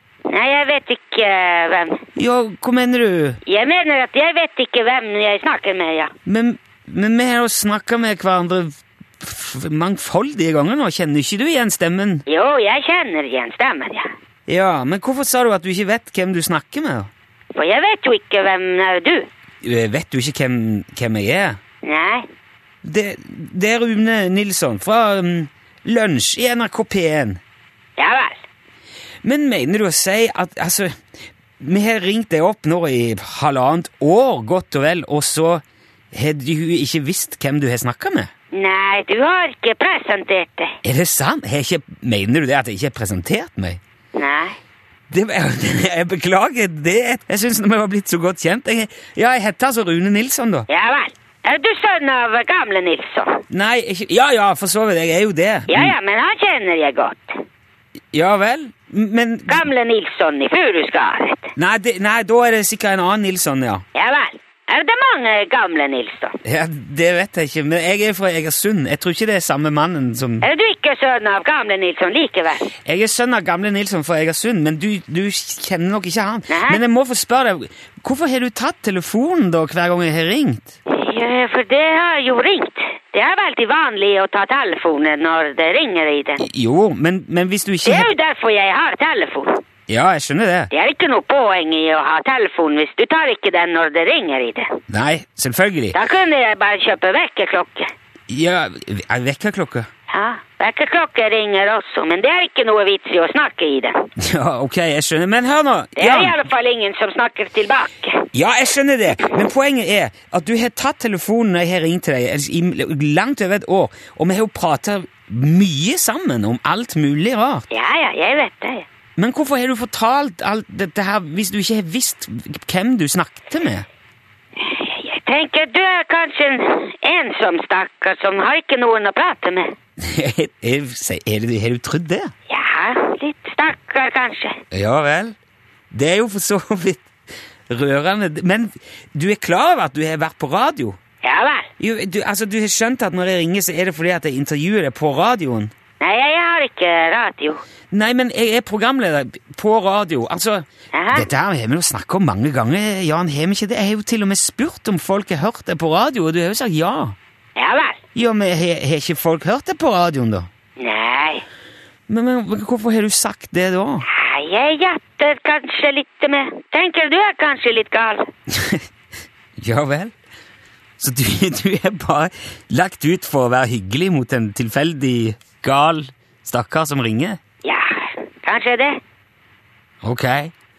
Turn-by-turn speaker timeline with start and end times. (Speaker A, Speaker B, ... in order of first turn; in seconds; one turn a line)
Speaker A: 0.3-2.0
Speaker B: 2.2-3.4
Speaker A: 3.5-6.1
Speaker B: 6.3-12.2
Speaker A: 12.3-14.1
Speaker B: 14.5-17.1
Speaker A: 17.5-19.3
Speaker B: 19.6-21.6
Speaker A: 21.8-22.3
Speaker B: 22.8-27.4
Speaker A: 28.0-28.4
Speaker B: 29.2-30.9
Speaker B: 31.6-38.3
Speaker A: 38.5-40.8
Speaker B: 40.8-43.8
Speaker A: 44.1-44.6
Speaker B: 45.1-50.7
Speaker A: 50.7-53.4
Speaker B: 53.5-56.0
Speaker A: 55.7-57.4
Speaker B: 58.1-59.6
Speaker A: 59.5-61.5
Speaker B: 61.6-63.8
Speaker A: 64.0-66.4
Speaker B: 66.4-70.5
Speaker A: 70.4-72.7
Speaker B: 72.8-80.7
Speaker A: 76.5-76.8
Speaker A: 80.9-86.4
Speaker B: 86.4-88.1
Speaker A: 87.8-89.6
Speaker B: 89.9-90.7
Speaker A: 90.7-94.8
Speaker B: 94.9-96.0
Speaker A: 95.9-97.9
Speaker B: 98.3-99.9
Speaker A: 100.1-104.1
Speaker B: 104.2-106.4
Speaker A: 106.0-108.3
Speaker B: 108.3-117.7
Speaker A: 117.7-118.8
Speaker B: 119.2-123.8
Speaker A: 124.6-129.7
Speaker B: 130.0-132.3
Speaker A: 132.5-134.6
Speaker B: 134.7-135.3
Speaker B: 135.9-137.1
Speaker B: 137.7-141.0
Speaker A: 141.2-141.7
Speaker B: 141.8-145.7
Speaker A: 146.0-147.6
Speaker B: 147.9-157.2
Speaker A: 150.9-151.3
Speaker A: 157.6-158.0
Speaker B: 158.1-160.5
Speaker A: 160.8-161.4
Speaker B: 162.1-164.1
Speaker A: 164.1-168.3
Speaker B: 168.5-168.8
Speaker B: 169.6-170.1
Speaker B: 171.0-177.4
Speaker A: 177.6-179.0
Speaker B: 180.0-180.5